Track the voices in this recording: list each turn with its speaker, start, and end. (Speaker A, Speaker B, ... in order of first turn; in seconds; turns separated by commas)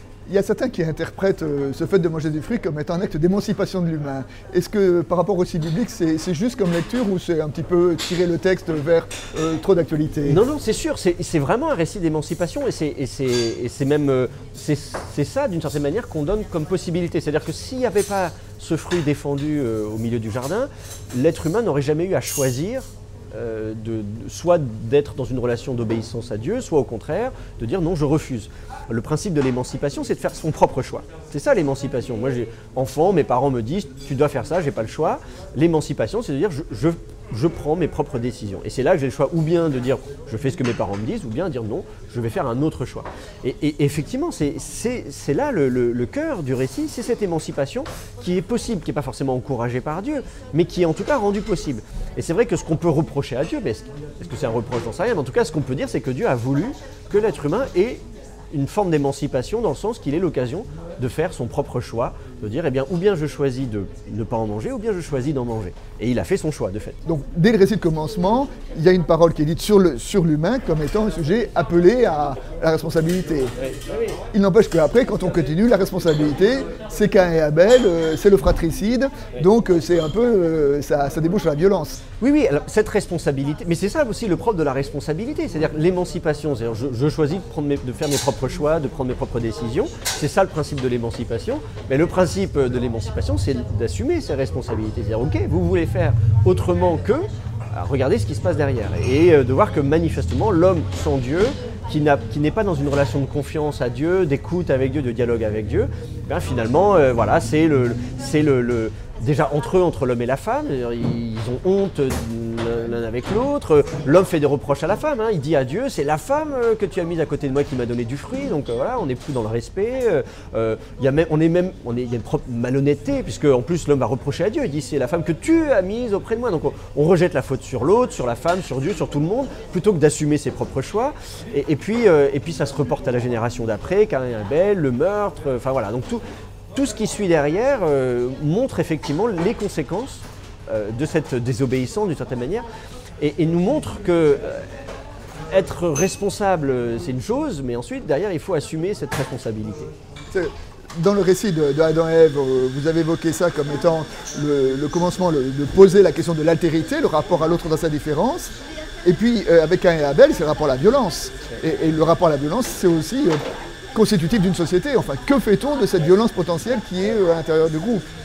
Speaker A: 0.3-10.4, Speaker B: 10.2-67.0, Speaker A: 67.0-73.5, Speaker B: 73.6-74.1, Speaker A: 74.3-82.0, Speaker B: 82.2-136.2, Speaker B: 136.7-142.7, Speaker B: 143.2-144.7, Speaker B: 145.5-149.9, Speaker A: 150.3-158.5, Speaker A: 159.0-163.4, Speaker A: 163.9-168.0